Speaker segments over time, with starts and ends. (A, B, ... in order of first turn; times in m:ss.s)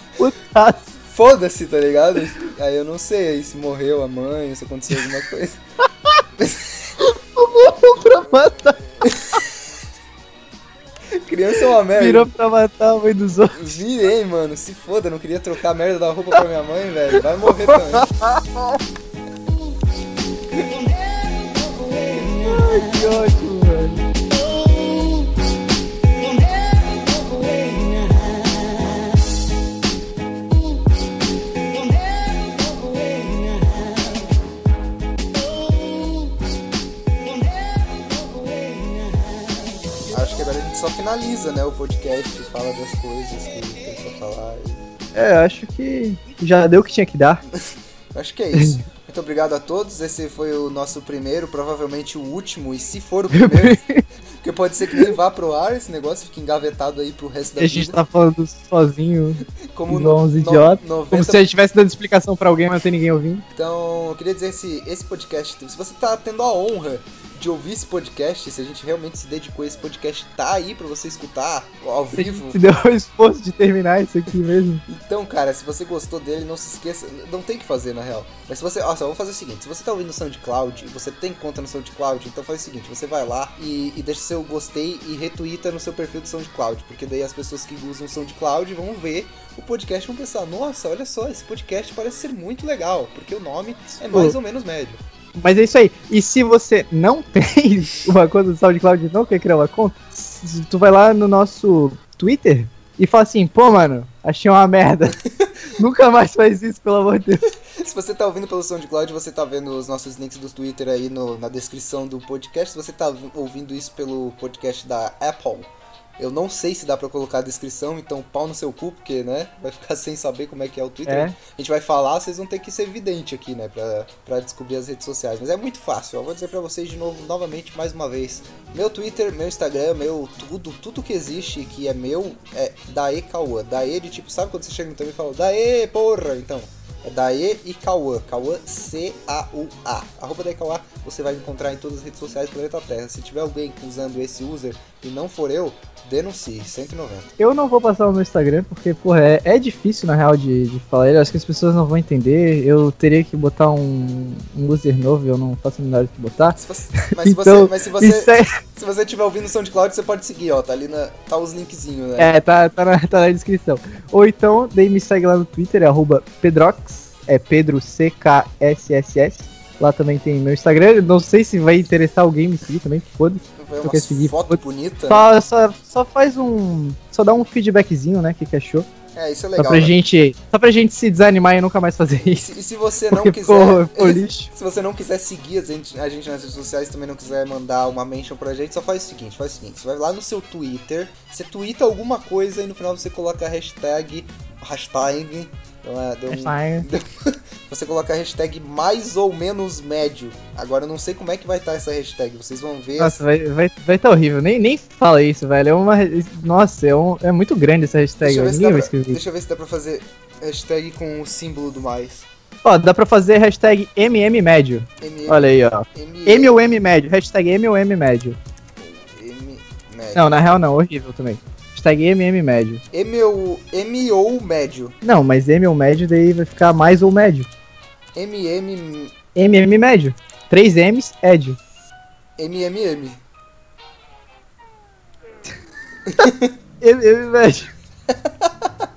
0:00.2-0:00.9 A
0:01.1-0:05.6 B
0:06.4-0:07.0 B
0:07.0-0:09.4 A
0:08.8-0:09.4 B
0:11.2-0:12.3 B
0:11.9-0:13.8 A
0:13.5-0:18.1 B
0:17.7-0:18.8 A
0:22.2-0:24.1 A
0:40.1-0:44.8 B
0:45.2-0:47.4 A
0:48.1-0:53.8 B
0:53.3-0:54.0 A
0:54.4-0:58.0 B
0:57.6-1:03.4 A
0:59.7-1:01.4 B
1:03.5-1:12.6 B
1:12.1-1:14.8 A
1:14.9-1:35.0 B
1:34.0-1:34.4 A
1:35.4-1:45.2 A
1:45.8-1:47.5 A
1:47.8-2:27.3 B
2:01.1-2:01.4 A
2:27.4-2:38.6 A
2:36.5-2:42.3 B
2:42.2-2:58.9 A
2:53.6-2:55.3 B
2:59.2-3:00.0 B
2:59.6-3:02.4 A
3:02.3-3:23.2 B
3:03.1-3:04.5 A
3:16.3-3:16.9 A
3:23.0-3:29.2 A
3:28.2-3:32.3 B
3:32.6-3:38.4 A
3:35.0-3:36.6 B
3:38.8-3:40.4 B
3:40.2-3:42.8 A
3:42.9-3:45.0 B
3:45.0-3:47.5 A
3:48.2-3:49.2 B
3:49.4-3:51.6 A
3:52.4-3:53.2 B
3:56.1-3:56.5 B
3:56.8-3:57.7 A